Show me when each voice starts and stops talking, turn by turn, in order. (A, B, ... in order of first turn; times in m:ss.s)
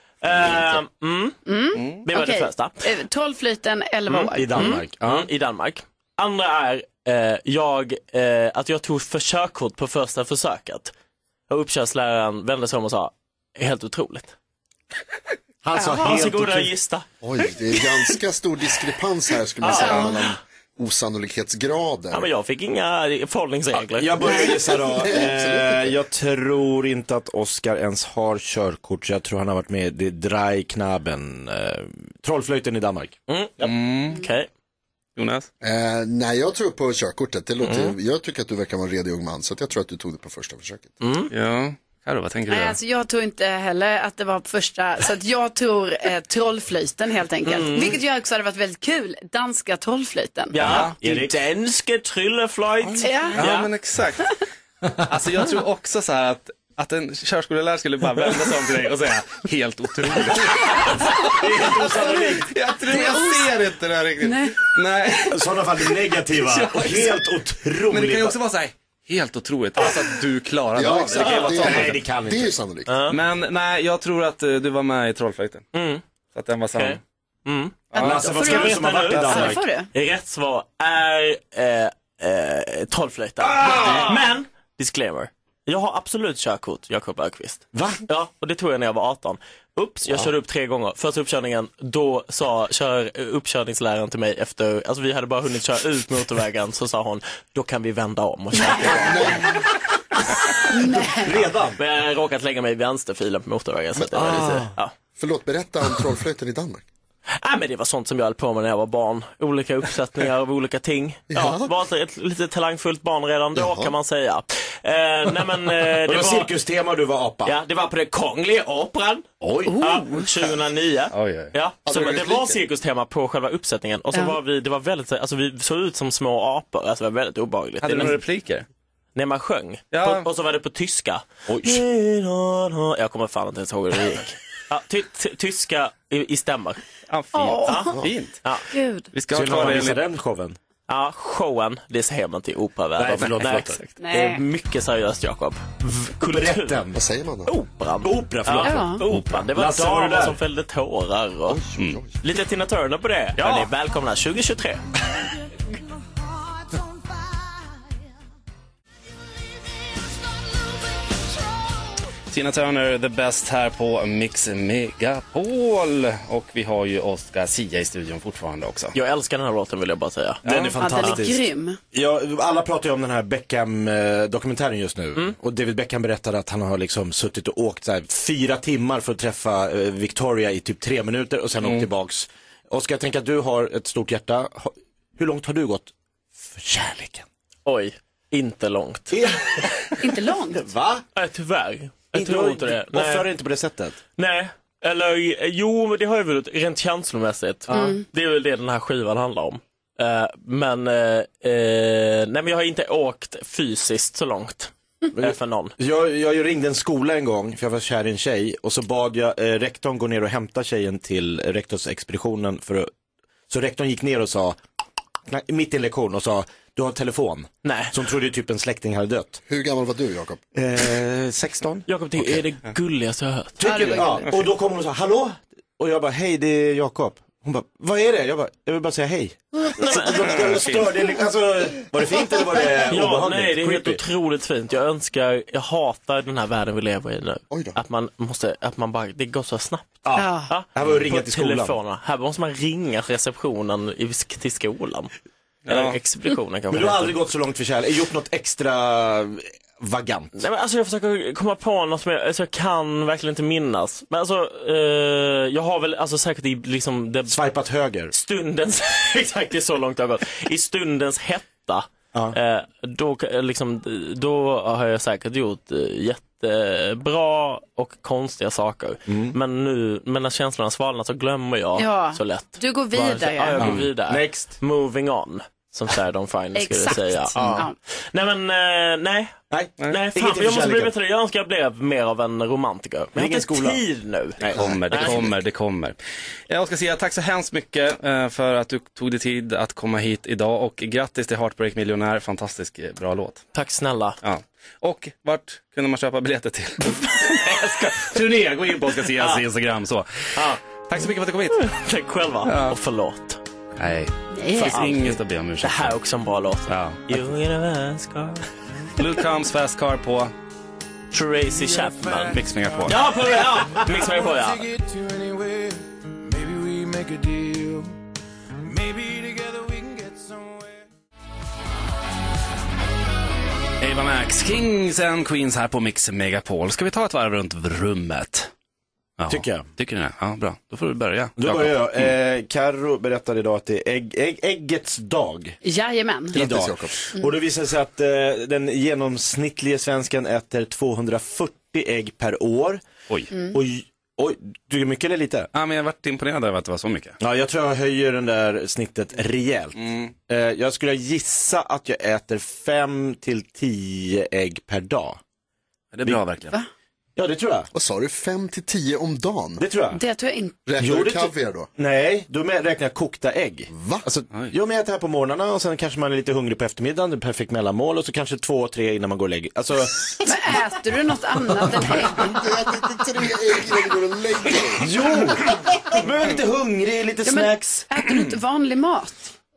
0:00.2-0:01.4 A
0:00.4-0:00.8 B
0:01.4-0:04.8 C
0:02.0-0:02.8 A
0:04.1-0:10.9 A
0:04.4-0:05.3 B
0:11.5-0:14.3 A
0:15.6-0:16.7 B
0:15.8-0:16.1 C
0:15.8-0:17.0 A
0:17.2-0:22.3 D
0:17.8-0:18.0 A
0:19.6-0:20.3 A
0:19.7-0:20.1 C
0:22.1-0:24.5 A
0:23.7-0:33.7 B
0:24.7-0:26.0 D
0:33.3-0:34.5 A
0:33.6-0:34.2 E
0:35.2-0:35.5 E
0:35.6-0:40.9 D
0:37.6-0:38.0 A
0:41.0-0:41.3 A
0:41.3-0:42.8 E
0:42.5-0:50.6 C
0:47.4-0:48.0 A
0:50.5-0:53.7 A
0:50.6-0:51.0 E
0:51.0-0:51.3 B
0:53.0-0:53.4 C
0:53.3-0:54.3 E
0:55.1-1:01.8 E
1:00.2-1:00.6 B
1:01.3-1:02.4 B
1:01.8-1:02.2 A
1:02.4-1:07.2 E
1:02.9-1:03.5 C
1:04.2-1:04.5 C
1:05.3-1:08.4 B
1:07.9-1:11.9 E
1:10.7-1:12.9 D
1:11.1-1:12.5 B
1:12.9-1:13.2 A
1:13.1-1:15.7 E
1:15.7-1:16.0 A
1:16.3-1:17.0 E
1:16.7-1:39.4 A
1:17.9-1:18.2 E
1:17.9-1:19.9 C
1:18.0-1:19.6 B
1:23.4-1:24.2 B
1:27.7-1:28.0 B
1:38.6-1:38.9 C
1:38.8-1:39.5 D
1:40.7-1:41.4 C
1:41.2-1:41.8 B
1:41.7-1:44.9 A
1:44.0-1:44.5 D
1:44.2-1:44.6 B
1:45.2-1:46.8 D
1:47.4-1:56.5 A
1:51.3-1:51.7 D
1:53.6-1:53.9 D
1:56.0-1:57.5 B
1:57.4-2:08.2 A
1:59.4-1:59.8 B
1:59.7-2:00.1 C
2:01.1-2:01.5 E
2:01.8-2:02.6 D
2:07.8-2:08.6 E
2:09.1-2:16.8 A
2:09.9-2:10.3 E
2:11.5-2:11.8 B
2:17.1-2:18.4 E
2:17.3-2:17.9 C
2:17.6-2:18.6 A
2:18.7-2:19.1 C
2:19.1-2:20.0 E
2:19.3-2:20.6 B
2:20.9-2:26.8 A
2:23.0-2:23.8 B
2:23.2-2:23.9 E
2:24.0-2:24.4 C
2:26.2-2:27.0 B
2:26.9-2:27.5 D
2:27.4-2:31.6 A
2:28.0-2:30.4 B
2:28.6-2:29.0 C
2:29.0-2:29.4 E
2:31.5-2:32.1 D
2:32.2-2:34.8 A
2:33.4-2:33.7 E
2:42.3-2:48.9 E
2:48.9-2:51.1 A
2:50.4-3:07.2 B
2:50.4-2:50.7 E
2:50.8-2:51.8 C
3:07.6-3:09.2 A
3:09.1-3:09.6 B
3:10.0-3:10.7 C
3:10.5-3:11.0 B
3:11.1-3:13.3 A
3:12.1-3:14.0 B
3:14.1-3:25.7 A
3:17.7-3:18.0 C
3:25.2-3:32.9 B
3:33.5-3:34.6 B
3:35.3-3:39.4 B
3:37.6-3:38.0 A
3:39.5-3:40.4 D
3:40.5-3:42.4 B
3:41.9-3:44.1 A
3:43.6-3:54.0 B
3:43.6-3:44.3 C
3:49.8-3:50.7 A
3:50.3-3:50.8 E
3:52.8-4:05.1 A
3:57.5-3:57.8 D
4:00.0-4:01.8 B
4:00.2-4:00.5 C
4:05.7-4:06.0 E
4:05.7-4:07.2 A
4:06.7-4:10.3 B
4:10.4-4:17.4 A
4:17.3-4:18.1 B
4:18.1-4:45.2 A
4:29.1-4:29.4 B
4:31.8-4:33.8 C
4:33.6-4:34.5 B
4:36.5-4:37.7 C
4:39.5-4:40.9 B
4:43.1-4:43.8 B
4:44.4-4:45.2 B
4:44.5-4:46.0 E
4:46.5-4:53.4 E
4:53.5-4:54.2 A
4:54.2-5:01.7 E
4:57.3-4:57.7 A
4:59.0-4:59.4 A
5:00.3-5:00.6 A
5:01.5-5:03.4 A
5:02.4-5:02.8 E
5:03.8-5:06.0 E
5:04.4-5:04.8 C
5:04.5-5:08.4 A
5:06.7-5:07.0 E
5:09.0-5:10.3 E
5:11.1-5:14.7 A
5:11.4-5:18.0 F
5:12.3-5:13.1 E
5:18.6-5:20.9 F
5:23.8-5:28.5 E
5:29.2-5:32.1 E
5:29.3-5:29.7 B
5:31.4-5:35.6 B
5:35.6-5:36.4 C
5:36.3-5:42.8 B
5:36.3-5:37.0 D
5:43.3-5:43.6 C
5:43.5-5:45.5 B
5:45.5-5:47.2 E
5:47.2-5:55.2 B
5:49.8-5:50.1 E
5:55.9-5:56.6 E
5:57.2-5:57.7 B
5:57.7-5:59.6 D
5:59.6-6:00.0 B
5:59.9-6:00.6 C
6:00.6-6:01.7 D
6:00.8-6:10.2 B
6:03.7-6:04.0 D
6:10.2-6:12.4 C
6:12.1-6:14.9 D
6:14.7-6:17.9 B
6:17.2-6:19.3 C